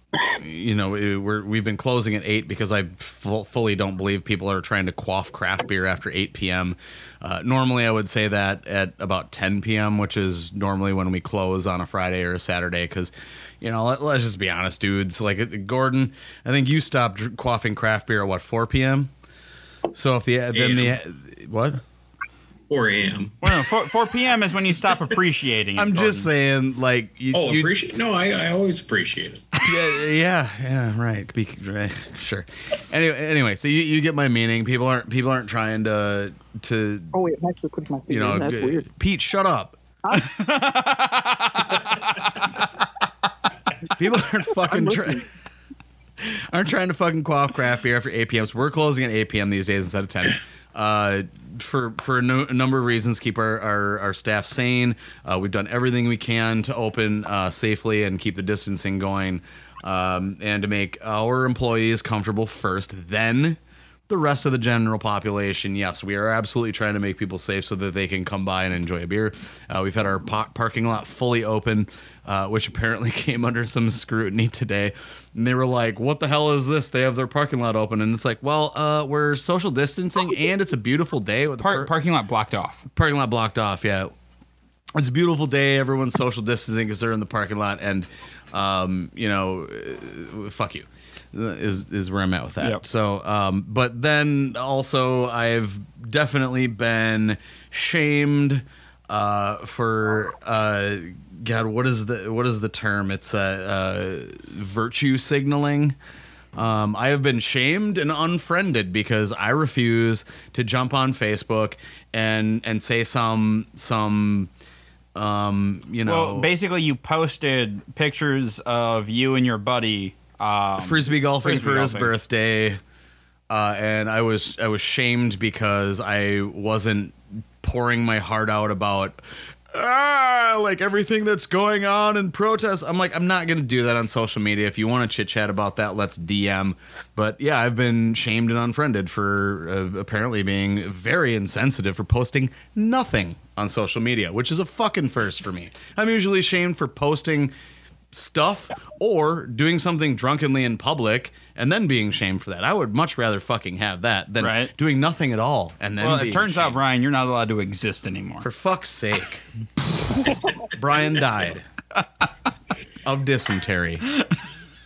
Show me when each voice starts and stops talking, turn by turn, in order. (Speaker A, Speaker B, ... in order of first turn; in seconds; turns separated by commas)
Speaker A: 0.3-19.1, Speaker A: 19.9-21.8, Speaker B: 20.5-20.9, Speaker B: 22.7-23.4, Speaker C: 23.4-26.3, Speaker A: 25.8-27.7, Speaker B: 27.3-29.5, Speaker A: 29.6-37.1, Speaker D: 37.1-38.9, Speaker A: 38.1-39.8, Speaker D: 40.0-40.3, Speaker C: 40.1-42.5, Speaker A: 44.0-45.2, Speaker D: 44.6-45.2, Speaker A: 46.2-81.9, Speaker C: 81.6-82.8, Speaker A: 82.9-84.1, Speaker A: 84.9-106.0, Speaker A: 106.5-114.5, Speaker A: 115.1-116.5, Speaker C: 116.0-122.2, Speaker A: 120.8-122.8, Speaker A: 123.5-147.5, Speaker A: 148.1-156.8, Speaker C: 154.4-154.7, Speaker C: 156.0-158.5, Speaker A: 158.4-159.4, Speaker A: 160.6-161.7, Speaker A: 163.0-164.0